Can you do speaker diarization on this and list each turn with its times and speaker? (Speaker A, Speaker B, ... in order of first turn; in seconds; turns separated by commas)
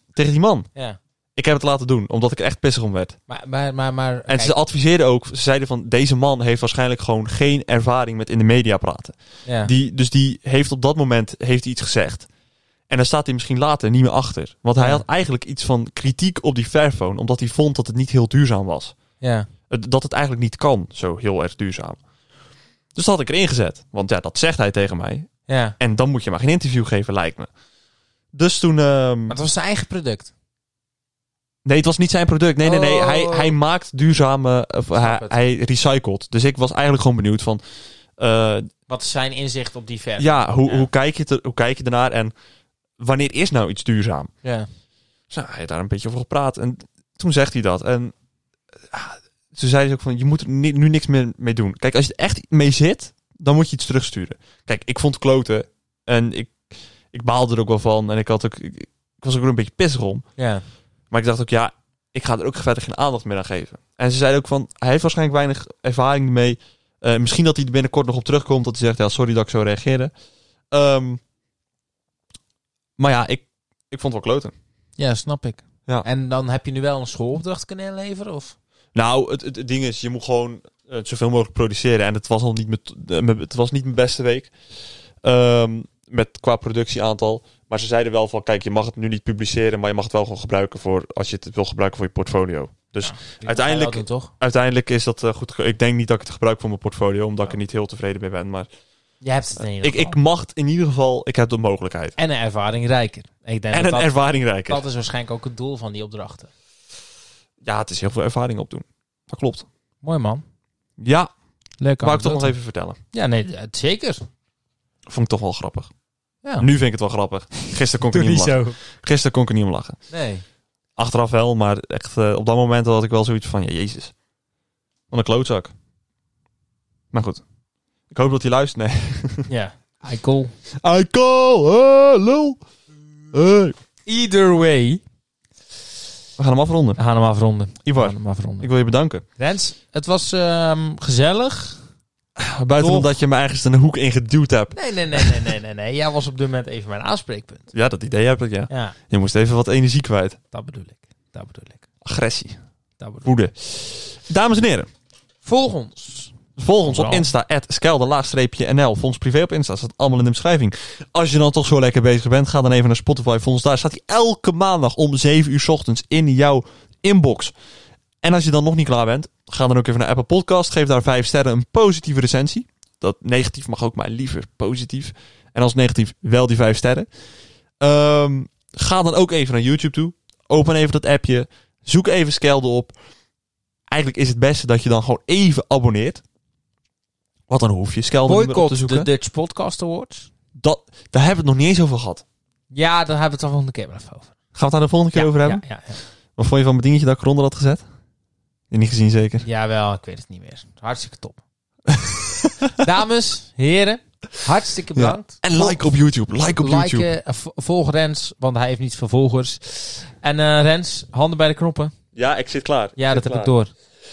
Speaker A: 0.1-0.7, Speaker A: 1.4-3.2, Speaker B: 3.3-4.6, Speaker A: 4.3-12.3, Speaker B: 9.5-9.7, Speaker A: 12.9-18.9, Speaker B: 14.8-15.0, Speaker B: 19.2-19.5, Speaker A: 19.7-22.0, Speaker A: 22.9-27.5, Speaker B: 25.5-25.8, Speaker A: 28.3-29.4, Speaker B: 29.3-30.3, Speaker A: 31.6-37.6, Speaker B: 32.6-33.5, Speaker B: 35.0-35.4, Speaker A: 38.2-38.7, Speaker B: 38.9-40.9, Speaker A: 40.2-42.3, Speaker A: 43.0-44.3, Speaker B: 44.4-44.7, Speaker A: 45.3-48.1, Speaker A: 48.9-60.2, Speaker B: 60.4-60.6, Speaker A: 61.1-70.1, Speaker A: 70.7-71.2, Speaker A: 73.0-74.5, Speaker B: 75.0-78.5, Speaker A: 79.0-84.5, Speaker A: 85.2-98.7, Speaker B: 93.0-94.3, Speaker B: 99.2-100.2, Speaker A: 99.7-102.2, Speaker B: 102.2-106.5, Speaker A: 103.7-104.8, Speaker A: 107.6-109.7, Speaker B: 110.0-110.4, Speaker A: 111.0-111.3, Speaker B: 111.8-112.5, Speaker A: 112.0-113.0, Speaker B: 113.1-114.2, Speaker A: 115.1-115.9, Speaker A: 116.6-120.0, Speaker B: 118.0-118.8, Speaker B: 120.1-120.4, Speaker A: 121.0-124.1, Speaker A: 125.1-125.7, Speaker A: 127.1-127.4, Speaker A: 128.1-129.5, Speaker B: 129.5-130.5, Speaker A: 130.8-132.6, Speaker A: 133.3-133.8, Speaker B: 134.1-135.0, Speaker A: 136.4-137.0, Speaker B: 137.0-138.7, Speaker A: 137.8-139.2, Speaker B: 139.4-141.8, Speaker A: 142.4-145.5, Speaker B: 142.8-143.1, Speaker B: 144.7-147.7, Speaker A: 147.7-150.4, Speaker B: 148.7-149.0, Speaker B: 150.5-151.9, Speaker A: 152.0-152.6, Speaker B: 153.0-153.3, Speaker A: 153.2-154.9, Speaker B: 155.4-157.3, Speaker A: 156.6-167.5, Speaker A: 168.2-177.1, Speaker A: 177.8-182.9, Speaker A: 183.9-186.2, Speaker A: 187.5-189.1, Speaker B: 188.2-190.3, Speaker A: 190.6-192.2, Speaker B: 192.7-194.3, Speaker A: 194.6-195.6, Speaker B: 195.1-196.0, Speaker A: 196.4-197.8, Speaker A: 198.7-199.5, Speaker B: 199.4-201.4, Speaker A: 201.9-202.8, Speaker B: 202.8-211.9, Speaker A: 205.0-207.1, Speaker A: 212.2-213.5, Speaker B: 213.0-213.7